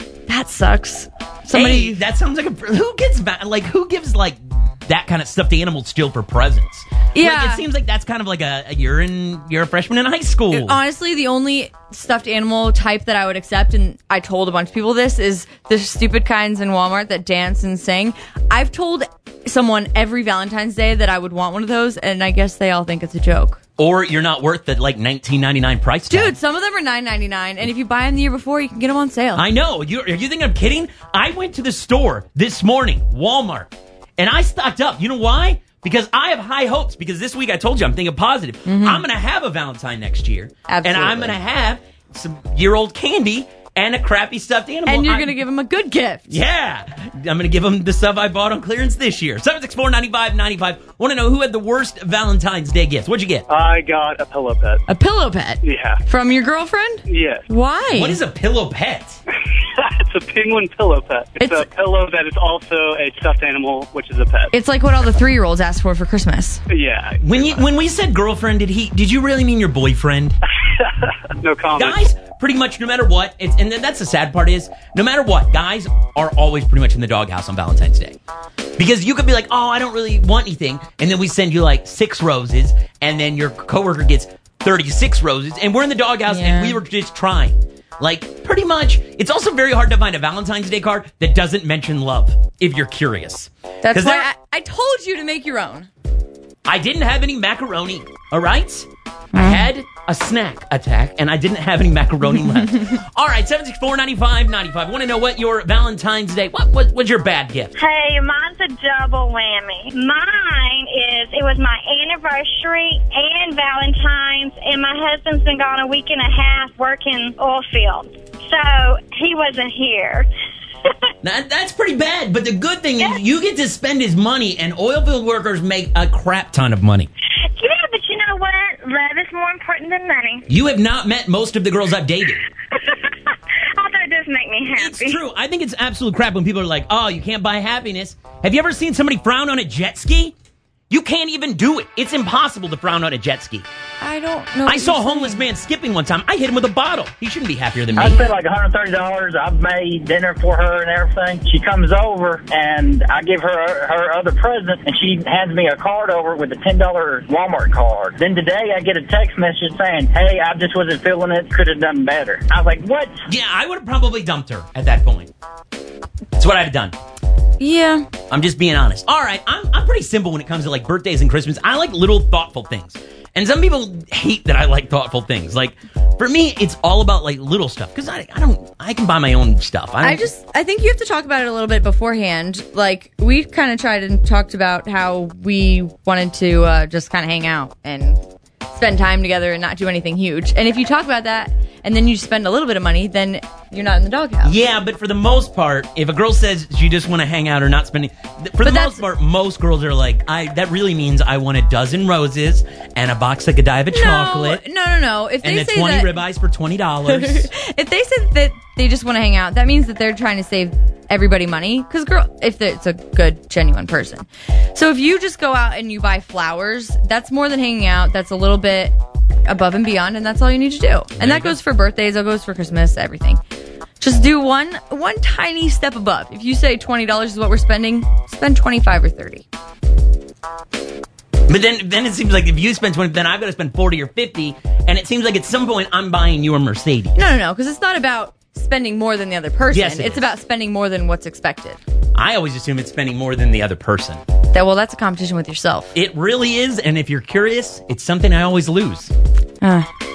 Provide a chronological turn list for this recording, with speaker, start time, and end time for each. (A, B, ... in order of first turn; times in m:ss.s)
0:00.3-0:02.0 A
0:01.5-0:10.8 B
0:07.1-0:07.6 A
0:10.5-0:23.6 A
0:23.8-0:26.3 B
0:26.1-0:29.4 A
0:29.3-0:45.4 B
0:38.6-0:39.0 A
0:40.7-0:41.4 A
0:44.8-0:46.4 A
0:46.3-0:53.4 B
0:53.5-0:54.8 C
0:54.9-0:58.2 A
0:55.6-0:56.0 C
0:57.1-0:57.4 C
0:57.9-0:59.2 B
0:59.8-1:04.5 C
1:01.4-1:01.6 A
1:04.5-1:06.6 A
1:06.7-1:07.6 C
1:07.2-1:10.4 B
1:10.8-1:12.1 C
1:11.8-1:18.2 B
1:18.8-1:34.3 B
1:26.3-1:26.8 A
1:33.8-1:35.9 A
1:36.6-1:47.7 B
1:39.3-1:39.7 A
1:47.8-2:00.3 D
2:01.2-2:07.1 B
2:07.6-2:10.4 D
2:10.5-2:12.4 B
2:12.8-2:15.2 D
2:14.7-2:20.3 B
2:20.9-2:23.6 B
2:24.0-2:25.4 A
2:24.6-2:28.2 B
2:28.0-2:43.2 E
2:43.3-2:45.3 B
2:46.4-2:46.9 B
2:47.6-2:48.0 A
2:48.3-3:00.3 B
3:00.0-3:14.6 A
3:14.4-3:24.6 B
3:18.6-3:19.0 A
3:23.9-3:26.2 A
3:25.4-3:27.5 B
3:27.0-3:38.9 A
3:39.4-3:43.4 A
3:41.2-3:41.6 B
3:44.0-3:49.4 A
3:51.5-3:57.2 B
3:57.1-4:01.8 A
3:59.7-4:00.3 B
4:02.1-4:04.2 B
4:04.5-4:05.9 A
4:05.9-4:09.1 B
4:09.6-4:09.9 A